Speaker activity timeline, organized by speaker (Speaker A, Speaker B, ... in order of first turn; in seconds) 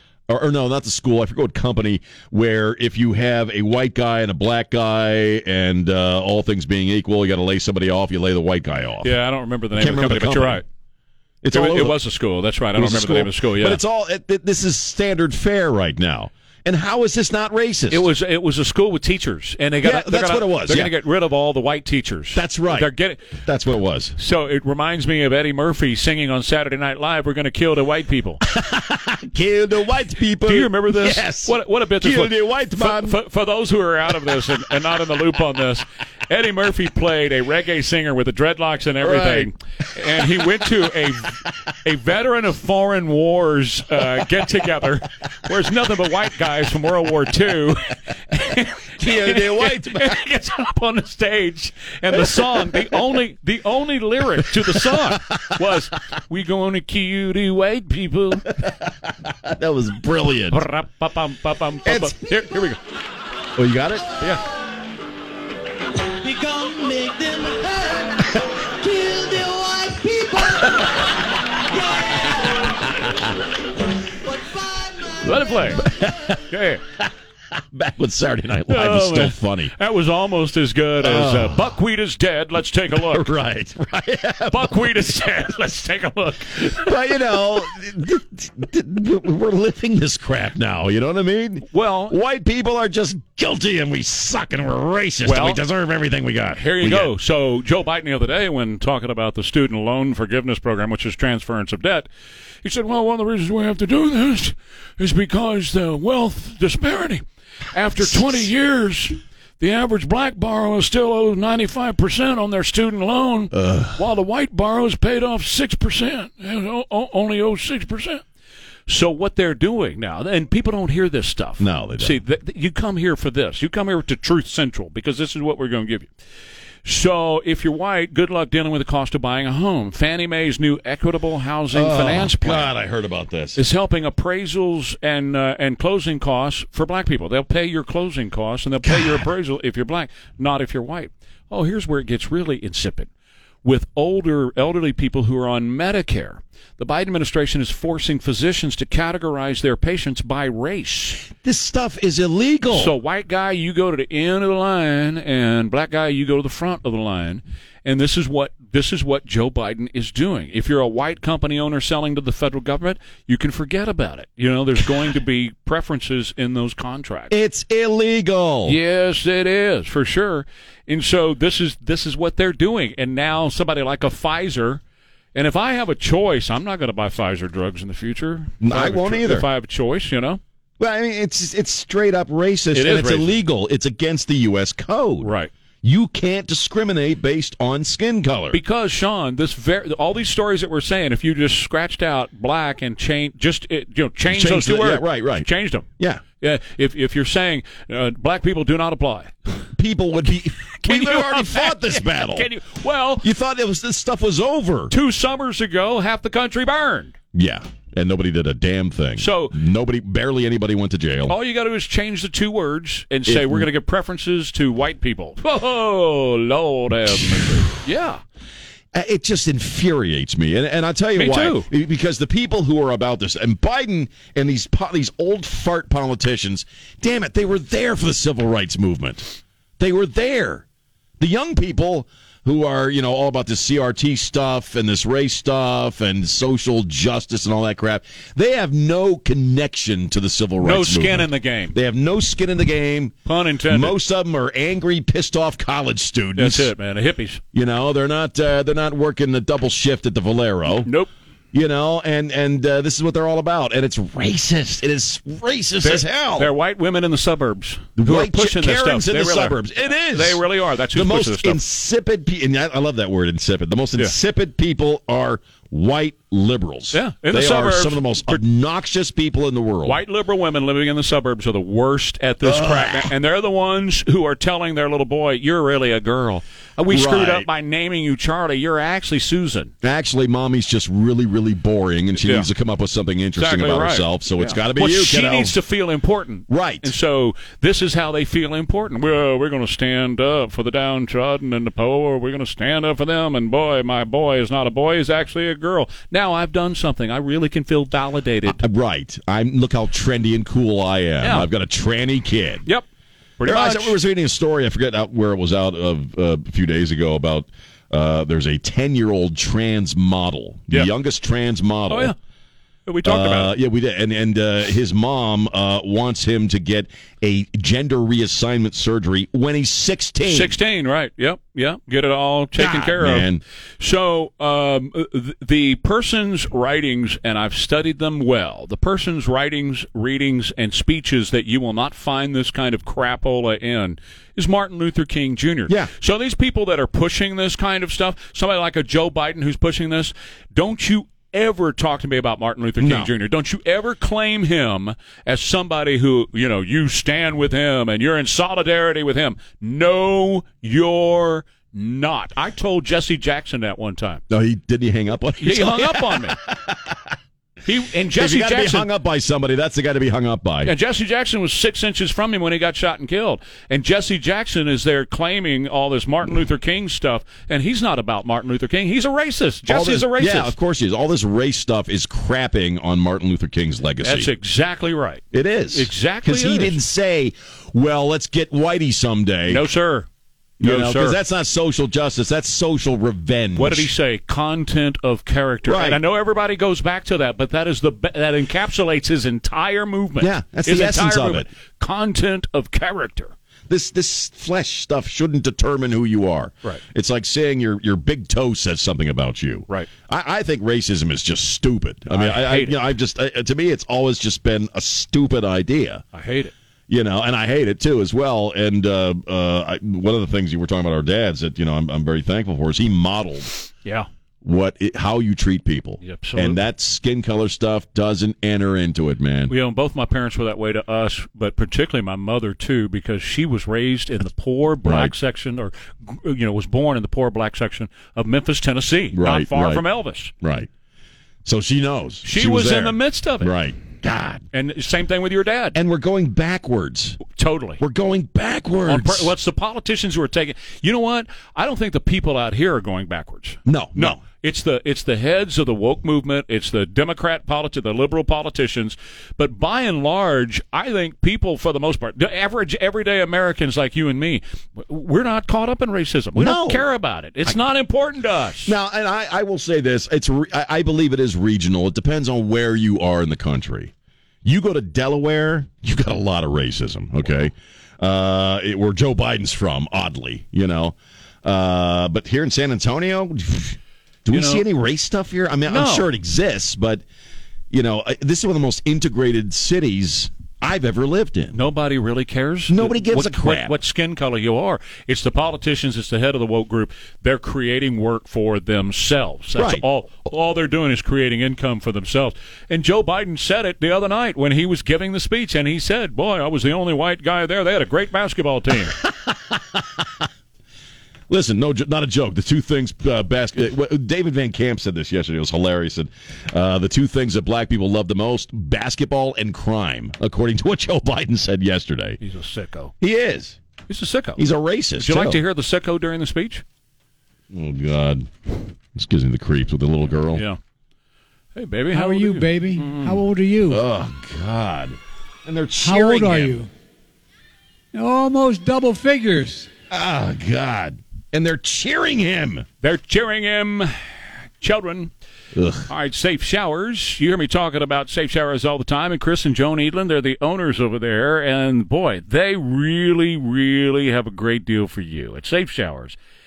Speaker A: 0.3-9.1, 9.7-10.6, 11.4-12.0, 12.8-18.1, 19.8-20.9, 22.3-22.9, 23.4-24.2, 28.5-33.2, 34.1-34.6, 39.0-39.5, 40.0-40.9, 49.0-50.2, 52.1-53.0, 54.5-55.7, 58.5-60.6, 61.9-62.2, 63.6-64.1, 75.8-77.0, 77.5-79.7, 81.0-81.7, 82.9-85.0, 86.6-97.1, 113.5-114.0, 121.6-122.2, 131.7-133.6, 138.8-139.2, 151.3-152.9, 167.3-168.8, 178.6-179.5, 180.8-185.3, 185.8-188.6, 194.3-195.5, 199.8-202.5, 203.2-204.9, 207.3-211.4, 213.3-213.7, 218.9-230.6, 231.2-243.1, 243.7-246.7, 247.5-250.9, 251.5-256.5, 258.0-260.4, 260.9-270.0, 272.4-273.1, 276.9-277.5, 279.8-285.6, 286.5-286.9, 298.5-302.7, 303.4-312.1, 313.0-320.6, 322.6-323.4, 342.8-343.1, 354.3-357.0, 358.1-360.7, 369.7-374.3, 375.3-379.6, 380.6-383.9, 385.6-386.0, 390.2-391.5, 393.7-406.0, 406.9-413.5, 414.4-419.6, 424.8-425.1, 429.1-429.8, 430.4-430.7, 431.4-434.4, 435.7-437.2, 437.8-439.3, 443.7-444.2, 456.4-456.8, 458.6-463.9, 464.4-477.0, 477.7-481.6, 482.7-483.8, 489.6-489.8, 498.9-500.1, 501.3-512.2, 513.0-513.6, 514.4-515.4, 517.5-520.4, 523.7-526.6, 529.9-532.7, 535.5-535.9
Speaker B: 9.0-10.6, 11.5-13.8, 17.9-23.4, 24.2-28.4, 30.4-58.5, 60.5-62.8, 75.2-75.9, 76.5-76.8, 78.7-83.3, 84.5-87.1, 91.7-92.2, 95.2-95.6, 96.5-102.1, 102.6-118.2, 118.9-126.1, 126.8-132.7, 133.6-143.1, 143.6-151.3, 152.7-167.3, 168.7-174.8, 175.3-180.4, 182.7-183.3, 185.2-185.5, 188.5-195.9, 196.4-199.3, 200.8-203.3, 204.9-207.2, 209.2-209.6, 211.3-218.2, 221.2-221.7, 240.6-241.8, 243.3-244.0, 246.4-247.4, 250.8-251.1, 255.8-261.6, 266.9-268.4, 269.9-279.7, 282.2-282.5, 283.4-298.6, 301.2-301.5, 303.4-304.0, 311.9-312.2, 312.9-313.5, 320.3-354.2, 355.4-356.4, 357.7-358.9, 360.6-370.5, 374.0-376.8, 379.5-380.1, 380.6-381.2, 383.6-393.3, 402.1-402.8, 406.1-406.5, 416.0-416.6, 419.5-430.3, 432.2-433.5, 434.5-435.8, 437.3-437.8, 438.9-458.8, 474.3-474.6, 475.7-476.1, 481.5-499.0, 512.2-512.9, 513.9-514.4, 515.0-516.6, 520.3-520.6, 521.5-523.2, 532.8-533.9, 534.6-535.1, 535.9-546.2
Speaker C: 66.2-71.1, 71.7-72.8, 74.2-75.5
Speaker D: 521.9-523.8, 525.8-526.7, 527.9-529.7